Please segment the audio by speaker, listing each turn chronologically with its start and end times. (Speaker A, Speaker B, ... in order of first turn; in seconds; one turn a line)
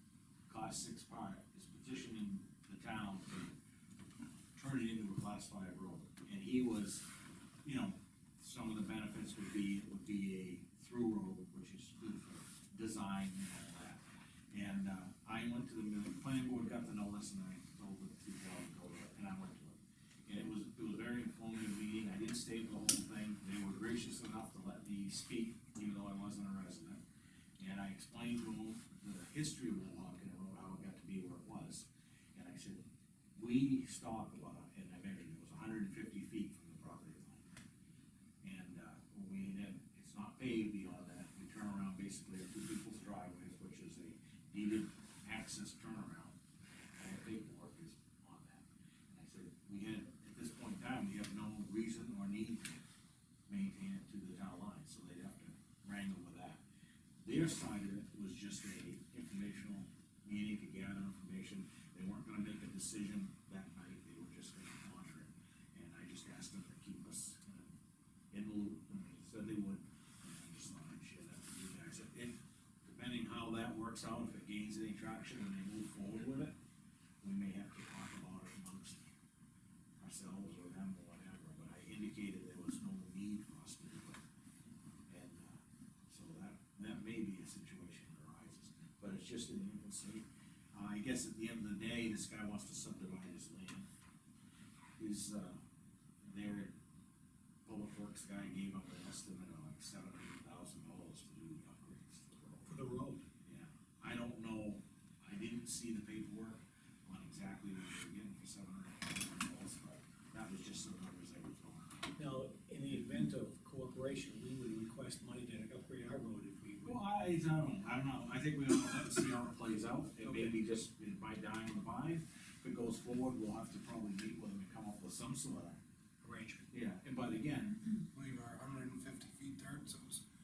Speaker A: 0.5-3.6
Speaker A: 4.5-7.1
Speaker A: 7.6-27.0
Speaker A: 27.6-32.8
Speaker A: 33.3-37.5
Speaker A: 38.4-46.4
Speaker A: 46.9-52.8
Speaker A: 53.5-56.6
Speaker A: 57.2-67.7
Speaker A: 68.3-76.5
Speaker A: 77.2-79.1
Speaker A: 80.0-84.2
Speaker A: 85.1-93.8
Speaker A: 95.0-95.6
Speaker A: 96.2-96.7
Speaker A: 97.6-102.8
Speaker B: 102.6-103.2
Speaker A: 103.4-112.2
Speaker B: 112.2-117.0
Speaker A: 116.8-125.8
Speaker B: 120.2-120.5
Speaker B: 126.2-126.7
Speaker A: 126.7-127.9
Speaker C: 128.1-130.2